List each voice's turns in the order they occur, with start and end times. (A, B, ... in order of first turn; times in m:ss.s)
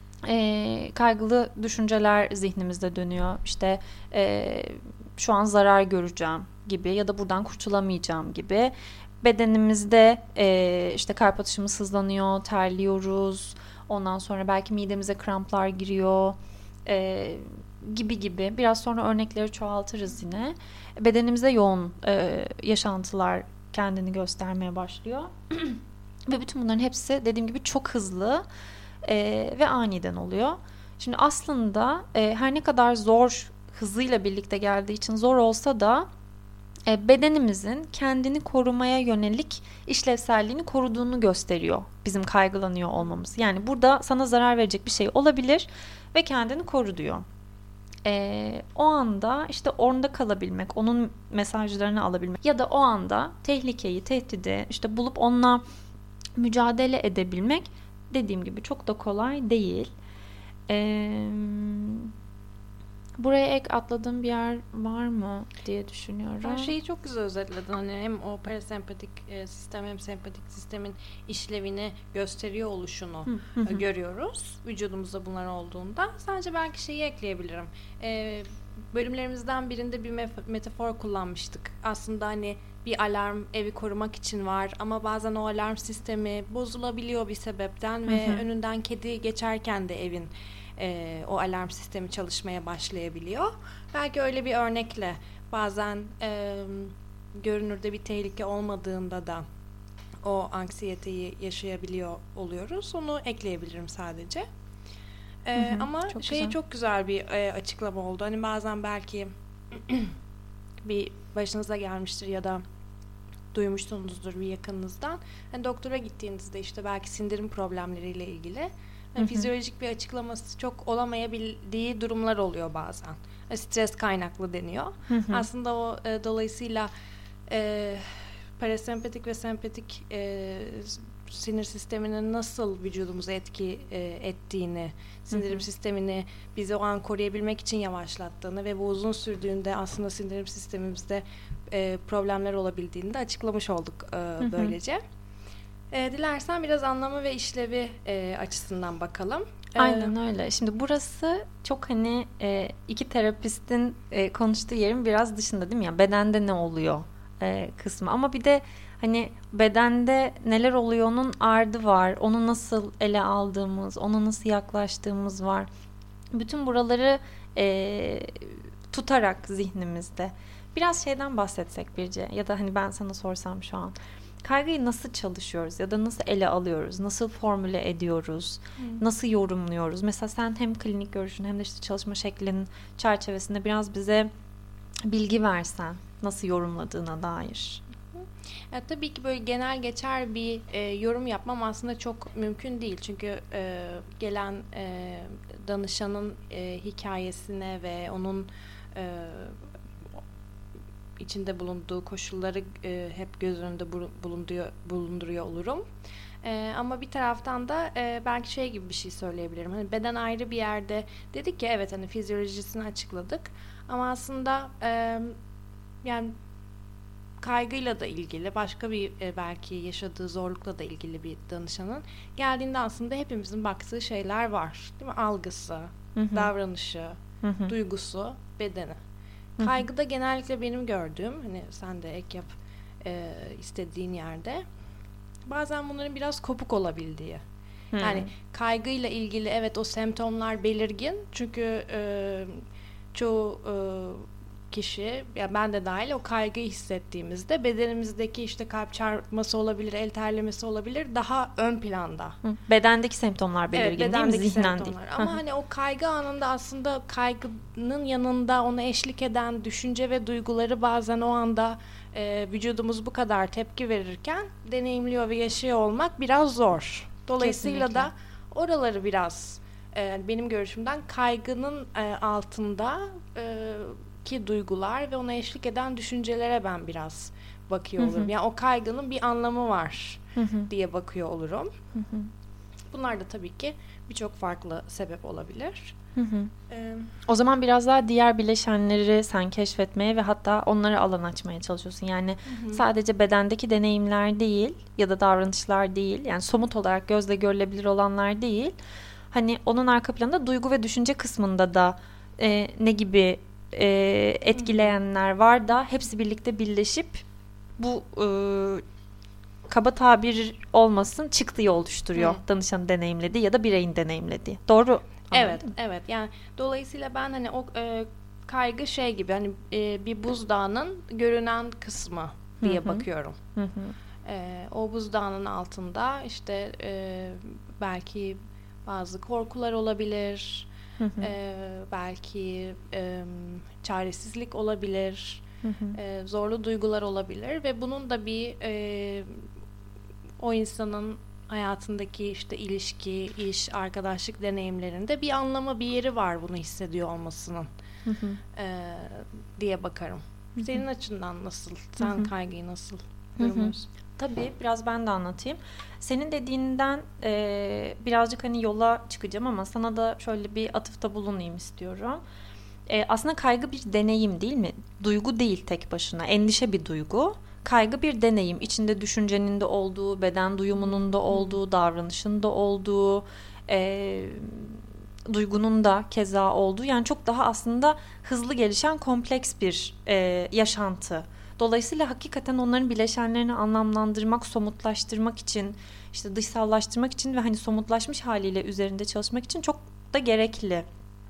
0:00.2-0:28.4 A
0:29.0-0:36.1 A
0:36.9-0:47.2 A
0:48.0-0:55.6 A
0:56.4-0:59.9 A
1:00.7-1:02.1 A
1:03.2-1:06.7 A
1:06.4-1:39.4 B
1:13.3-1:13.8 A
1:28.1-1:28.4 A
1:40.2-1:44.4 B
1:45.4-1:50.1 B
1:45.6-1:46.6 A
1:50.8-1:52.6 B
1:53.5-2:06.9 B
1:59.2-1:59.5 A
2:05.1-2:05.5 A
2:07.5-2:25.0 B
2:24.4-2:24.7 A
2:25.9-2:30.1 B
2:29.8-2:45.7 A
2:46.3-3:04.3 A
2:58.8-2:59.0 B
3:05.1-3:07.8 A
3:08.1-3:19.6 B
3:21.2-3:25.8 B
3:26.4-3:35.4 B
3:36.0-3:36.3 B
3:37.4-3:49.0 B
3:46.2-3:46.5 A
3:47.4-3:47.7 A
3:49.6-3:52.5 B
3:49.6-3:49.8 A
3:53.0-3:54.6 B
3:55.4-3:57.4 B
3:57.9-3:58.3 A
3:58.0-4:12.4 B
4:12.4-4:15.4 A
4:13.7-4:41.8 B
4:27.4-4:28.1 A
4:38.0-4:38.3 A
4:40.4-4:40.7 A
4:41.9-4:42.3 A
4:42.9-4:46.0 B
4:46.2-4:46.5 A
4:46.7-4:47.1 B
4:47.2-4:58.7 A
4:52.4-4:52.8 B
4:59.3-5:07.2 A
5:04.6-5:05.0 B
5:07.8-5:08.8 A
5:09.7-5:15.7 A
5:12.2-5:12.4 B
5:15.3-5:23.4 B
5:22.6-5:23.0 A
5:23.6-5:23.9 A
5:24.2-5:35.4 B
5:31.0-5:31.3 A
5:35.6-5:36.0 A
5:35.9-5:39.4 B
5:40.4-5:47.7 B
5:48.0-5:48.4 A
5:48.5-5:53.9 B
5:50.6-5:50.8 A
5:52.0-5:52.3 A
5:53.4-6:02.2 A
6:02.9-6:30.8 A
6:10.8-6:11.6 B